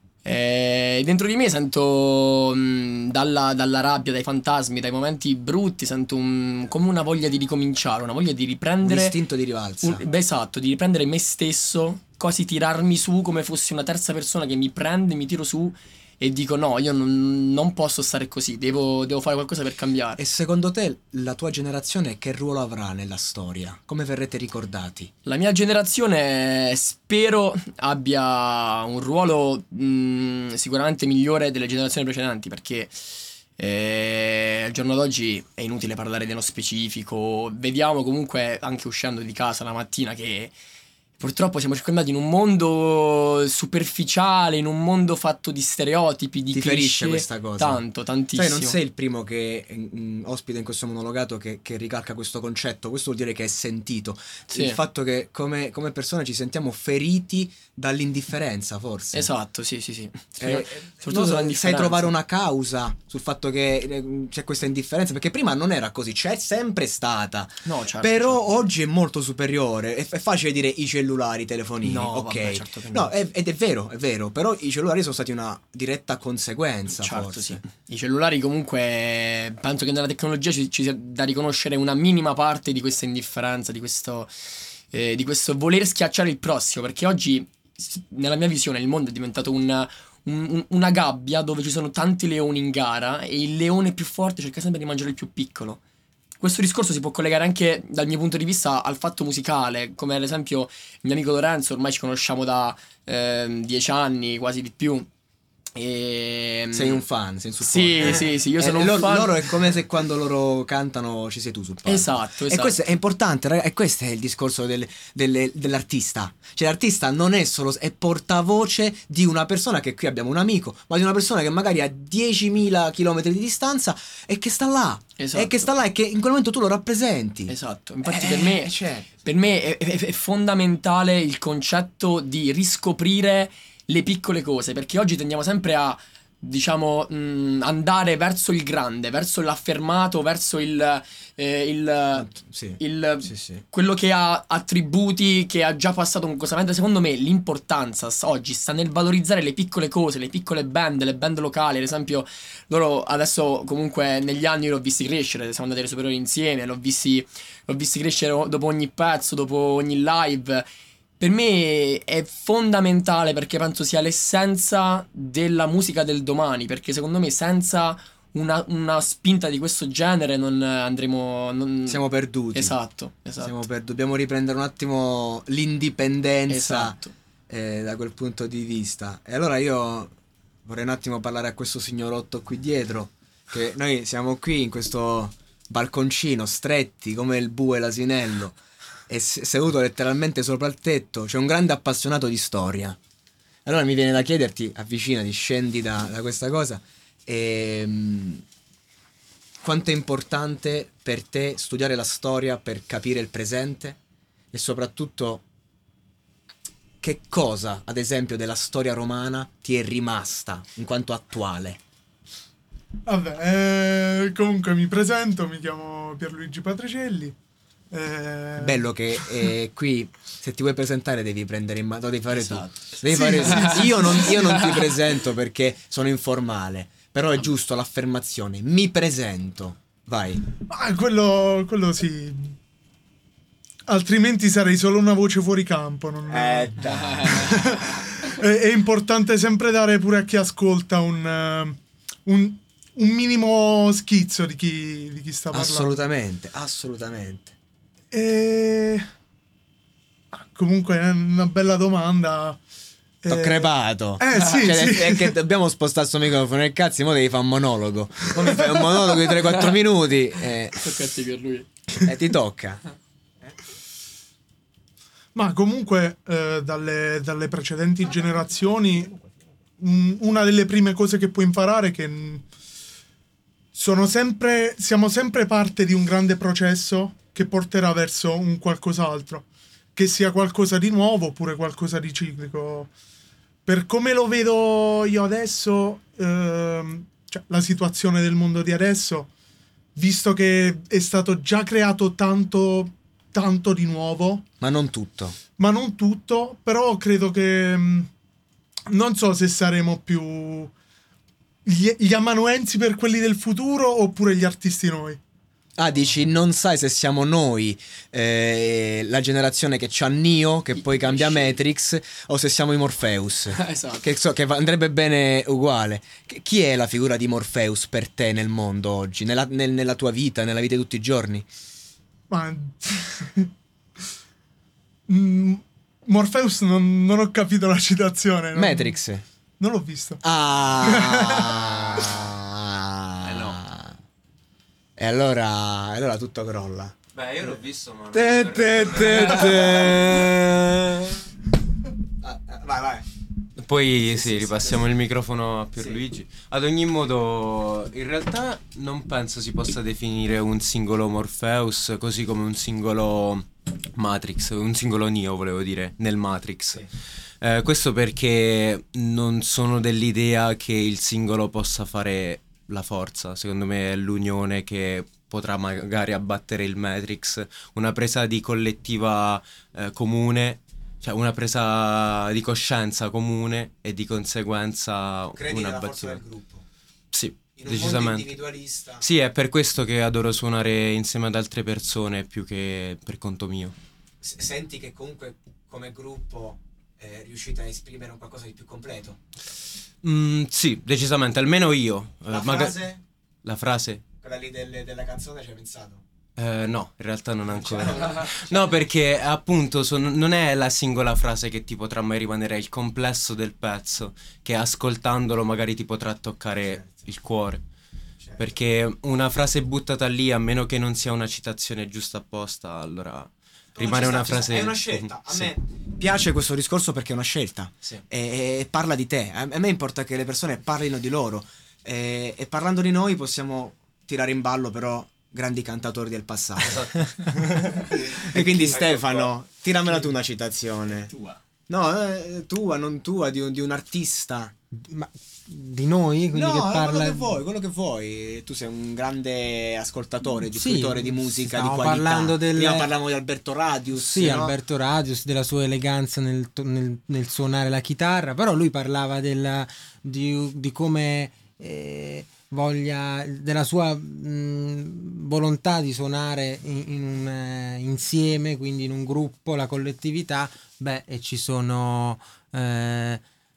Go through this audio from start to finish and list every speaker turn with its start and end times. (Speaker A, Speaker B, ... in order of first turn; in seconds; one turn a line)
Speaker A: 0.2-9.2
Speaker B: 8.8-10.0
Speaker A: 9.8-20.2
Speaker B: 20.2-25.1
Speaker A: 25.2-33.0
Speaker A: 33.6-40.5
Speaker A: 41.2-48.8
Speaker B: 46.5-47.8
Speaker B: 48.3-59.3
Speaker A: 54.5-54.8
Speaker A: 59.1-62.1
Speaker B: 60.4-77.6
Speaker A: 67.6-68.4
Speaker A: 71.8-73.1
Speaker A: 77.0-95.8
Speaker A: 96.4-105.1
Speaker A: 105.7-107.0
Speaker B: 106.7-129.1
Speaker A: 107.6-109.4
Speaker A: 111.8-112.7
Speaker A: 125.2-125.7
Speaker A: 127.5-160.7
Speaker B: 142.1-143.6
Speaker A: 161.2-172.0
Speaker B: 171.9-172.8
Speaker A: 172.5-173.6
Speaker B: 173.4-177.0
Speaker A: 176.5-177.1
Speaker B: 177.5-180.1
Speaker B: 180.7-188.6
Speaker B: 189.1-193.0
Speaker B: 193.7-198.4
Speaker B: 199.6-204.0
Speaker B: 204.5-205.4
Speaker B: 207.0-211.8
Speaker C: 213.0-217.4
Speaker C: 217.9-219.3
Speaker B: 218.6-230.4
Speaker A: 222.3-224.8
Speaker C: 223.1-224.3
Speaker C: 230.7-232.6
Speaker C: 233.9-246.0
Speaker B: 236.3-237.8
Speaker A: 237.1-237.4
Speaker B: 245.5-247.5
Speaker C: 248.1-249.1
Speaker C: 250.3-252.6
Speaker C: 253.2-255.3
Speaker B: 253.3-260.9
Speaker A: 254.3-254.7
Speaker C: 258.5-258.9
Speaker A: 260.8-261.7
Speaker B: 262.0-262.8
Speaker C: 265.3-269.2
Speaker C: 269.8-272.5
Speaker C: 273.7-282.9
Speaker C: 283.6-289.3
Speaker C: 289.9-294.4
Speaker B: 294.6-295.4
Speaker C: 295.6-298.1
Speaker C: 298.9-300.7
Speaker C: 301.6-305.2
Speaker B: 305.8-321.4
Speaker A: 310.8-311.6
Speaker A: 313.5-314.0
Speaker C: 322.3-323.5
Speaker C: 325.1-328.9
Speaker B: 328.5-329.2
Speaker C: 329.6-330.2
Speaker B: 330.2-334.0
Speaker C: 330.8-332.1
Speaker A: 333.2-333.6
Speaker B: 335.0-336.9
Speaker D: 337.1-340.1
Speaker B: 338.1-341.2
Speaker B: 342.2-343.1
Speaker D: 343.6-356.9
Speaker B: 344.1-344.8
Speaker D: 357.4-376.2
Speaker B: 375.3-376.6
Speaker D: 377.1-378.3
Speaker B: 377.6-379.0
Speaker D: 379.0-383.7
Speaker B: 384.2-389.2
Speaker D: 390.0-392.8
Speaker B: 392.3-393.0
Speaker D: 393.4-394.0
Speaker B: 394.2-396.0
Speaker D: 396.4-407.6
Speaker B: 397.7-398.5
Speaker D: 408.4-415.5
Speaker B: 413.8-426.9
Speaker D: 426.6-429.3
Speaker B: 427.9-431.1
Speaker B: 431.7-434.5
Speaker E: 434.7-437.4
Speaker B: 436.3-444.5
Speaker E: 440.4-442.9
Speaker E: 444.0-463.2